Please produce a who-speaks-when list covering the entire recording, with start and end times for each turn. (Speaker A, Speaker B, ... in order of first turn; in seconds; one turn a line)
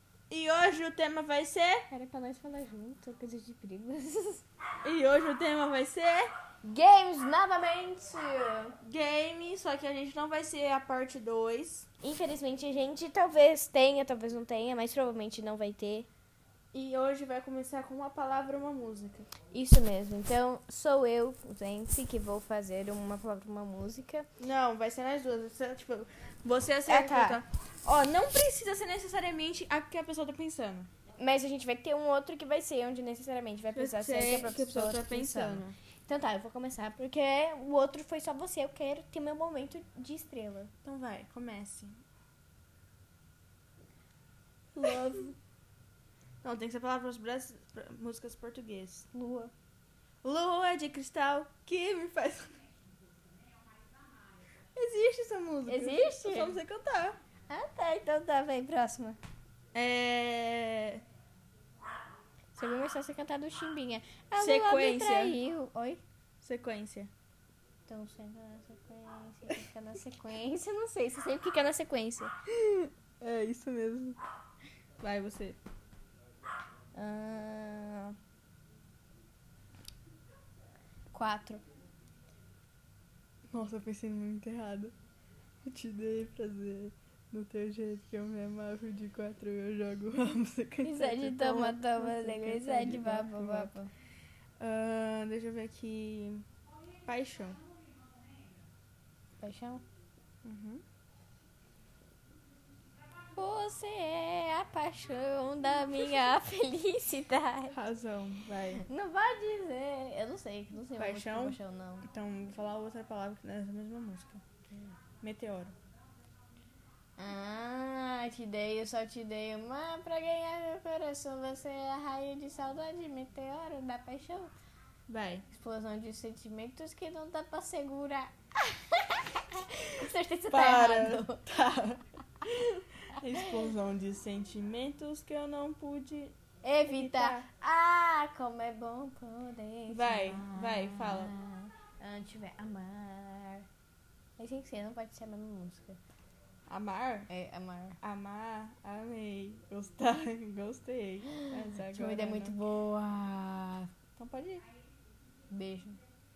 Speaker A: 0.3-1.9
Speaker B: 1.9-4.4
Speaker A: 4.8-6.3
Speaker B: 6.6-8.7
Speaker A: 8.8-11.9
Speaker B: 12.0-16.1
Speaker A: 16.7-19.3
Speaker B: 19.5-24.3
Speaker A: 24.4-30.9
Speaker B: 26.9-27.4
Speaker B: 31.2-40.7
Speaker A: 33.7-35.7
Speaker A: 40.8-42.0
Speaker B: 44.7-45.4
Speaker A: 46.4-49.1
Speaker B: 49.1-49.5
Speaker A: 50.2-52.6
Speaker A: 54.7-57.2
Speaker B: 55.7-56.6
Speaker B: 57.5-59.2
Speaker A: 59.7-61.0
Speaker B: 62.5-66.0
Speaker A: 64.4-65.4
Speaker A: 66.4-67.1
Speaker B: 67.9-72.3
Speaker A: 72.5-74.2
Speaker A: 75.0-75.6
Speaker B: 76.9-78.2
Speaker B: 81.1-81.6
Speaker A: 83.5-84.9
Speaker A: 85.6-93.7
Speaker B: 90.8-93.9
Speaker A: 94.6-96.5
Speaker A: 97.0-97.6
Speaker B: 99.4-99.8
Speaker A: 100.4-100.8
Speaker B: 103.3-107.8
Speaker A: 107.7-108.8
Speaker B: 108.8-112.1
Speaker A: 110.9-114.4
Speaker B: 114.7-115.0
Speaker A: 115.2-115.7
Speaker B: 117.2-124.5
Speaker A: 125.1-125.5
Speaker B: 125.5-131.4
Speaker A: 130.5-136.3
Speaker B: 136.6-143.7
Speaker A: 136.9-137.4
Speaker A: 139.9-141.3
Speaker B: 144.4-146.0
Speaker A: 146.7-147.3
Speaker B: 147.3-148.0
Speaker A: 148.0-152.6
Speaker B: 151.9-153.9
Speaker A: 154.2-154.6
Speaker B: 155.5-156.0